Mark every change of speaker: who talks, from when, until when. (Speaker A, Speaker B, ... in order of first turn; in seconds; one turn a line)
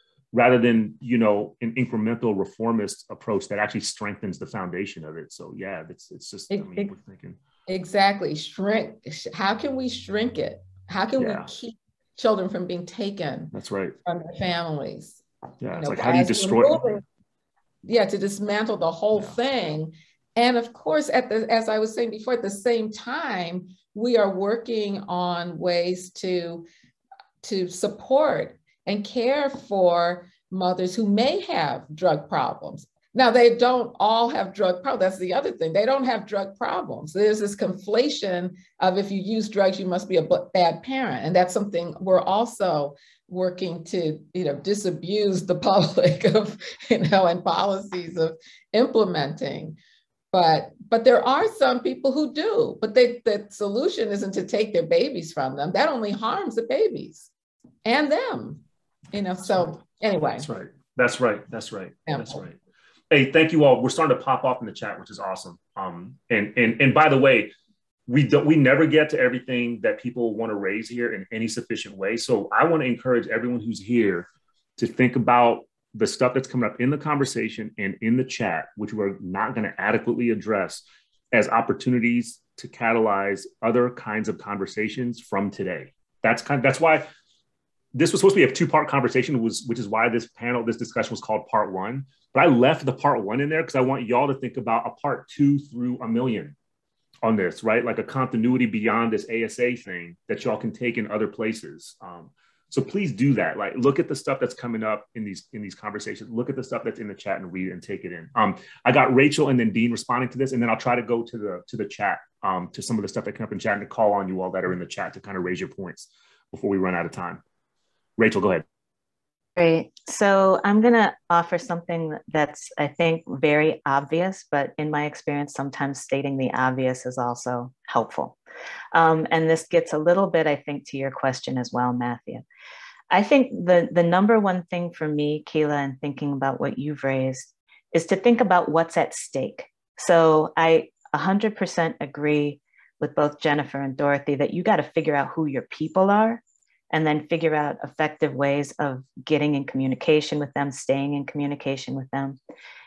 Speaker A: 0.3-7.4
Speaker B: 6.5-6.9
Speaker B: 7.7-15.2
Speaker A: 11.2-11.5
Speaker A: 13.5-13.9
Speaker A: 15.6-16.9
Speaker B: 15.7-17.0
Speaker B: 17.9-26.7
Speaker B: 27.4-49.8
Speaker B: 50.3-57.3
Speaker B: 57.9-58.6
Speaker B: 59.1-60.5
Speaker A: 60.4-62.6
Speaker B: 62.1-62.4
Speaker A: 63.1-67.5
Speaker A: 68.1-87.1
Speaker A: 87.9-96.6
Speaker A: 97.2-117.4
Speaker A: 118.2-118.7
Speaker C: 119.6-128.4
Speaker C: 128.9-132.4
Speaker C: 133.1-152.4